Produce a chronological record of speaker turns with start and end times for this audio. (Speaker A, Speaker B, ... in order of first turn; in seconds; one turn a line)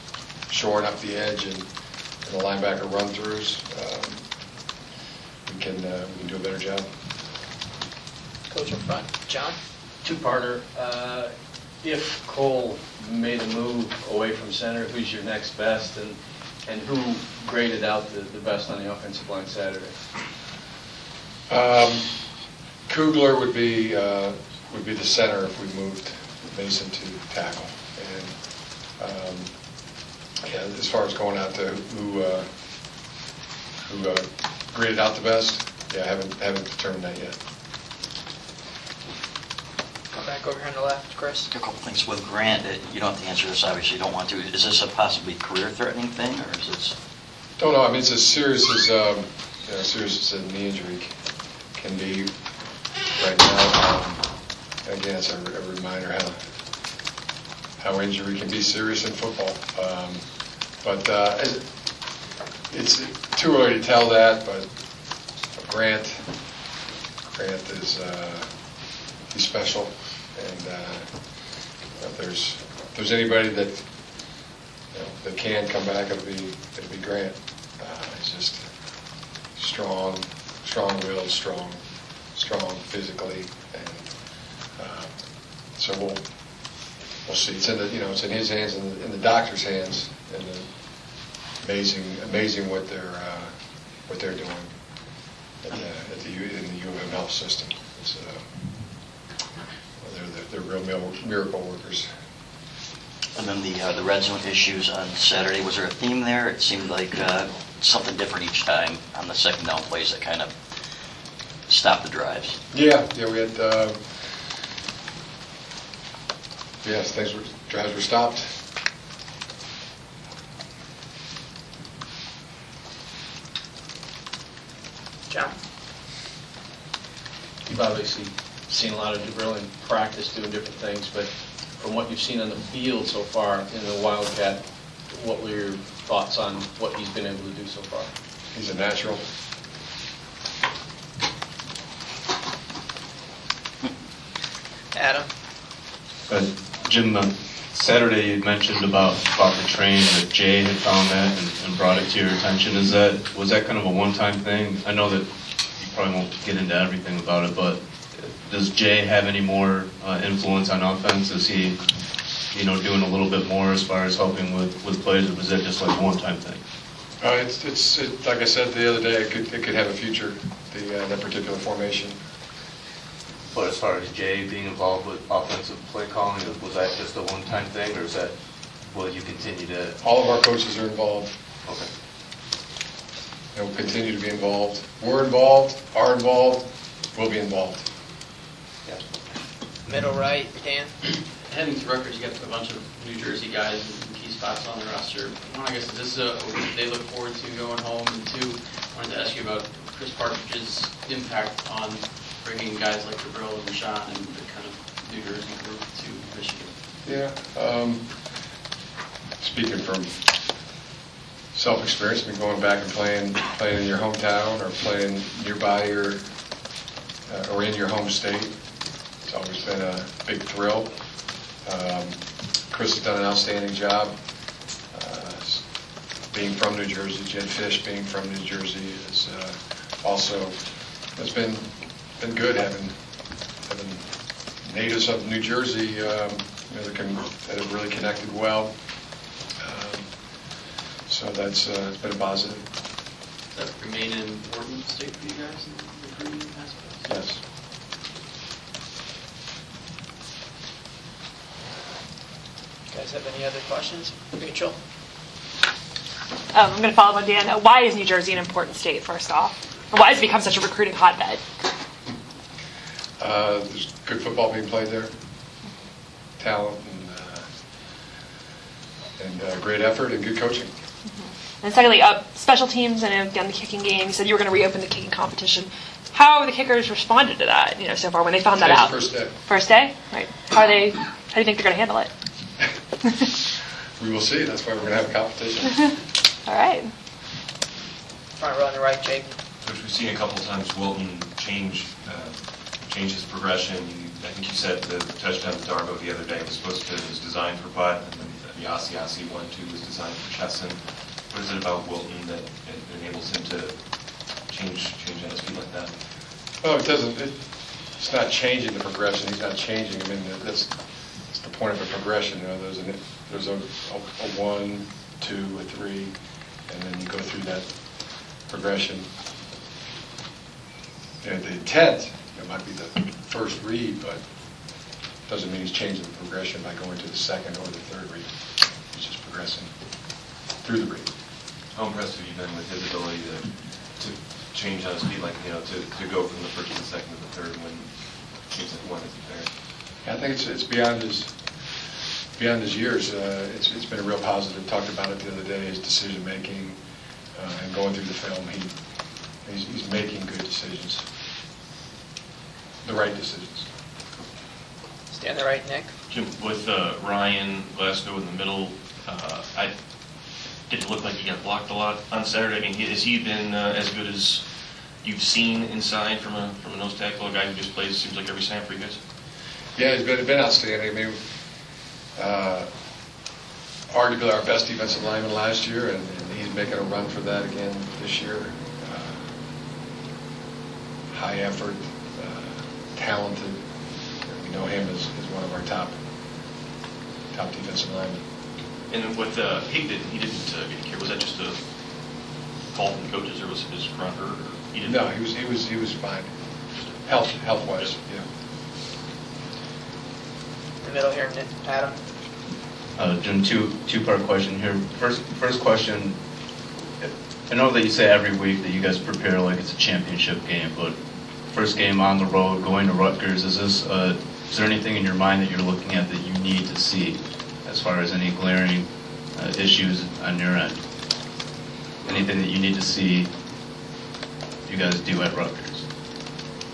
Speaker A: 0.5-1.7
Speaker A: 2.2-4.2
Speaker A: 5.5-6.9
Speaker B: 8.5-9.6
Speaker C: 10.0-19.9
Speaker A: 21.5-22.1
Speaker A: 22.9-28.3
Speaker A: 29.0-29.5
Speaker A: 30.4-32.5
Speaker A: 33.9-37.4
Speaker B: 40.1-41.5
Speaker D: 41.5-46.9
Speaker A: 47.6-51.1
Speaker A: 51.8-52.3
Speaker A: 53.2-54.2
Speaker A: 54.9-56.4
Speaker A: 57.8-60.2
Speaker A: 60.8-61.6
Speaker A: 62.7-64.7
Speaker A: 65.6-66.3
Speaker A: 67.3-68.5
Speaker A: 69.3-71.1
Speaker A: 72.0-73.8
Speaker A: 74.9-78.6
Speaker A: 79.6-81.8
Speaker A: 82.3-84.1
Speaker A: 84.8-85.2
Speaker A: 85.8-86.2
Speaker A: 87.3-90.7
Speaker A: 91.6-93.5
Speaker A: 94.1-94.7
Speaker A: 95.7-98.4
Speaker A: 100.0-102.1
Speaker D: 103.3-110.5
Speaker D: 111.7-112.5
Speaker A: 112.7-114.0
Speaker A: 116.8-118.5
Speaker C: 127.7-138.1
Speaker A: 138.5-139.2
Speaker B: 144.9-145.3
Speaker E: 146.3-155.2
Speaker E: 155.8-161.8
Speaker E: 162.5-166.6
Speaker A: 167.2-172.2
Speaker E: 173.5-178.3
Speaker E: 178.9-180.0
Speaker A: 180.0-181.3
Speaker A: 183.5-187.8
Speaker B: 189.8-190.9
Speaker F: 191.5-206.7
Speaker A: 207.1-208.1
Speaker A: 209.4-210.1
Speaker A: 211.5-216.2
Speaker A: 217.3-218.5
Speaker A: 219.2-220.9
Speaker A: 221.7-222.2
Speaker A: 222.7-224.1
Speaker A: 224.9-225.6
Speaker A: 226.3-230.6
Speaker A: 231.2-231.7
Speaker A: 232.2-232.9
Speaker A: 233.7-234.0
Speaker A: 234.6-238.7
Speaker A: 239.6-240.1
Speaker A: 241.1-242.7
Speaker F: 243.5-247.1
Speaker A: 247.1-247.4
Speaker B: 252.9-254.8
Speaker G: 256.5-261.4
Speaker A: 263.2-265.1
Speaker A: 266.4-267.4
Speaker A: 269.2-270.7
Speaker G: 271.2-282.1
Speaker A: 278.6-279.3
Speaker A: 284.0-285.9
Speaker G: 286.5-286.9
Speaker B: 288.4-289.3
Speaker H: 289.6-292.4
Speaker H: 292.9-300.8
Speaker H: 301.3-303.7
Speaker H: 304.6-305.9
Speaker A: 306.6-307.4
Speaker A: 308.0-310.7
Speaker A: 311.3-316.1
Speaker A: 316.7-317.7
Speaker A: 318.5-319.1
Speaker A: 321.2-324.2
Speaker A: 325.3-328.3
Speaker A: 328.9-329.7
Speaker A: 330.6-331.1
Speaker H: 331.8-337.9
Speaker H: 338.5-339.5
Speaker A: 340.0-341.3
Speaker A: 342.4-346.8
Speaker A: 347.4-348.7
Speaker A: 349.4-351.1
Speaker A: 352.8-353.7
Speaker B: 355.1-355.9
Speaker I: 356.1-359.7
Speaker I: 360.7-364.4
Speaker I: 365.0-369.0
Speaker A: 369.8-371.2
Speaker A: 372.2-372.7
Speaker A: 373.9-379.2
Speaker A: 381.1-383.6
Speaker A: 384.3-385.9
Speaker A: 387.3-388.2
Speaker I: 388.9-391.6
Speaker I: 392.7-395.1
Speaker A: 394.9-396.3
Speaker I: 396.8-397.9
Speaker A: 397.1-398.2
Speaker B: 400.8-401.9
Speaker E: 403.0-406.2
Speaker E: 407.0-410.9
Speaker E: 411.5-420.8
Speaker E: 422.0-423.3
Speaker E: 424.7-425.8